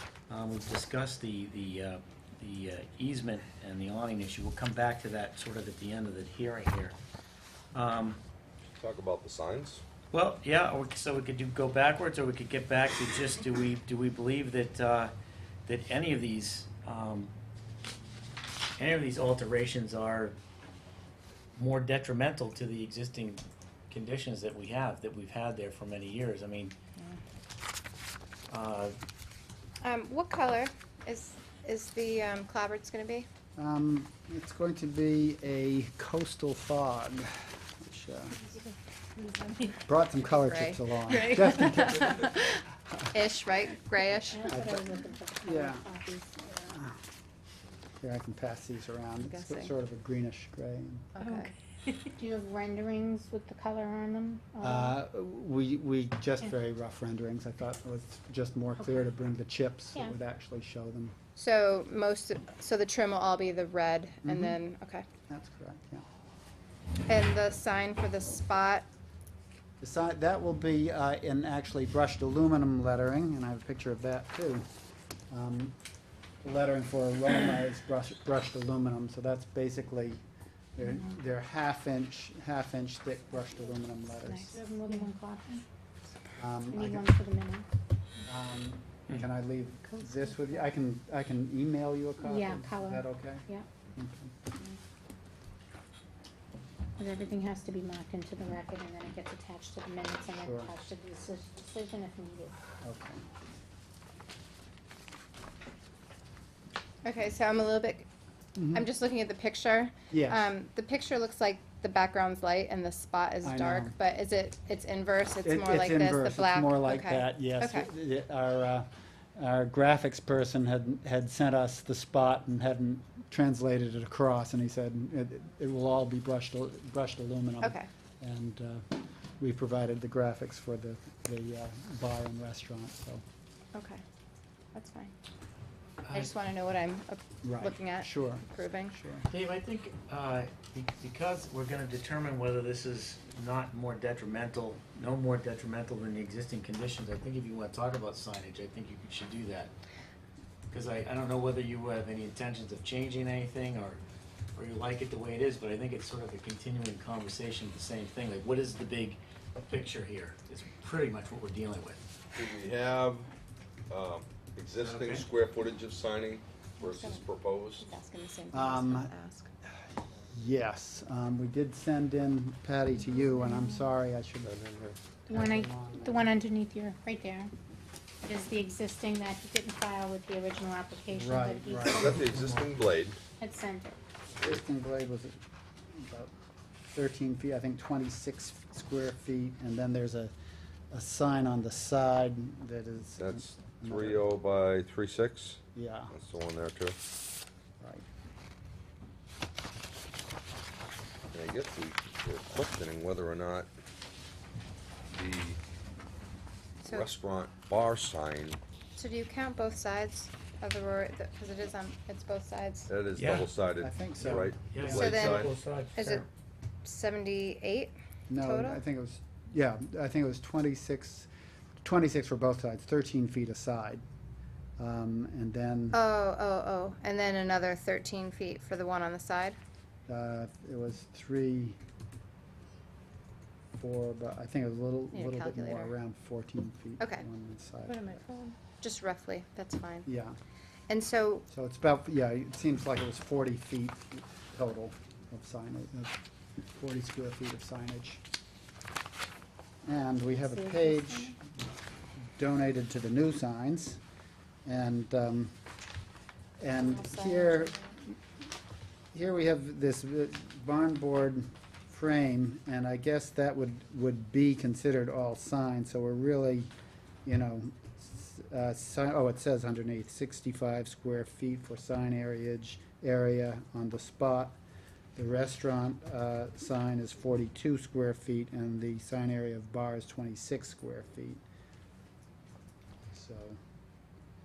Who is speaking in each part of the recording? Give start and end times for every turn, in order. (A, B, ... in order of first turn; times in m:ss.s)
0:00.3-0:07.0 A
0:07.7-0:08.2 A
0:08.7-0:09.8 B
0:10.1-0:15.1 A
0:15.6-0:17.3 A
0:18.8-0:20.4 A
0:21.6-0:26.8 A
0:28.5-0:29.0 A
0:29.8-0:33.3 C
0:33.6-0:38.4 D
0:39.8-0:43.1 D
0:40.3-0:42.6 C
0:43.1-0:44.6 C
0:44.3-0:46.2 E
0:44.5-0:44.9 D
0:45.4-0:45.8 D
0:46.5-0:47.0 D
0:48.0-0:51.1 D
0:49.2-0:49.7 C
0:51.1-0:51.5 C
0:51.2-0:55.0 E
0:54.6-1:01.1 D
1:01.4-1:05.0 C
1:04.2-1:04.6 D
1:05.3-1:06.0 D
1:07.1-1:08.8 C
1:09.8-1:14.6 D
1:15.3-1:15.8 D
1:16.4-1:20.2 D
1:20.7-1:24.5 D
1:24.2-1:25.6 E
1:26.4-1:27.1 D
1:26.7-1:27.7 E
1:28.2-1:34.3 D
1:32.2-1:33.7 E
1:37.0-1:42.6 E
1:40.4-1:40.8 D
1:42.8-1:43.2 D
1:47.0-1:48.1 C
1:48.6-1:48.8 D
1:48.7-1:57.9 C
1:50.1-1:50.5 D
1:53.4-1:54.0 D
1:55.4-2:08.8 D
2:07.6-2:07.9 C
2:09.4-2:13.2 D
2:13.7-2:14.0 C
2:14.7-2:15.1 C
2:16.0-2:16.3 A
2:16.1-2:18.9 C
2:17.4-2:19.3 D
2:19.3-2:29.7 A
2:30.7-2:34.0 A
2:34.5-2:42.0 A
2:42.3-2:43.3 B
2:43.9-2:47.9 B
2:44.8-2:45.2 A
2:46.8-2:49.5 C
2:48.5-2:49.1 D
2:50.3-2:54.5 D
2:54.4-2:55.0 B
2:55.3-2:56.3 D
2:55.3-2:57.5 E
2:58.2-3:02.3 E
3:01.1-3:02.8 D
3:01.8-3:03.2 B
3:03.4-3:04.0 E
3:04.4-3:05.3 D
3:05.9-3:06.3 D
3:06.9-3:10.3 D
3:10.9-3:14.4 D
3:13.2-3:15.6 B
3:15.7-3:16.1 D
3:16.1-3:17.0 B
3:17.8-3:18.0 D
3:21.3-3:23.7 B
3:25.1-3:25.6 B
3:26.8-3:28.6 B
3:26.8-3:27.1 C
3:28.9-3:32.9 C
3:32.9-3:35.5 B
3:33.2-3:33.5 A
3:33.8-3:35.2 D
3:34.2-3:36.2 A
3:34.8-3:36.2 C
3:36.8-3:38.8 C
3:38.3-3:41.3 D
3:41.8-3:44.0 D
3:44.8-3:46.0 D
3:45.9-3:49.6 C
3:50.1-3:51.8 D
3:53.7-3:58.2 D
3:55.1-3:55.9 C
3:58.7-4:00.1 C
4:00.0-4:00.4 D
4:00.9-4:01.4 C
4:01.5-4:06.2 D
4:06.8-4:08.2 D
4:09.8-4:11.4 D
4:10.3-4:11.3 E
4:12.4-4:14.0 D
4:14.6-4:15.5 D
4:16.6-4:18.2 D
4:16.7-4:17.8 C
4:19.1-4:26.7 D
4:27.2-4:34.6 D
4:35.2-4:41.4 D
4:43.1-4:43.6 D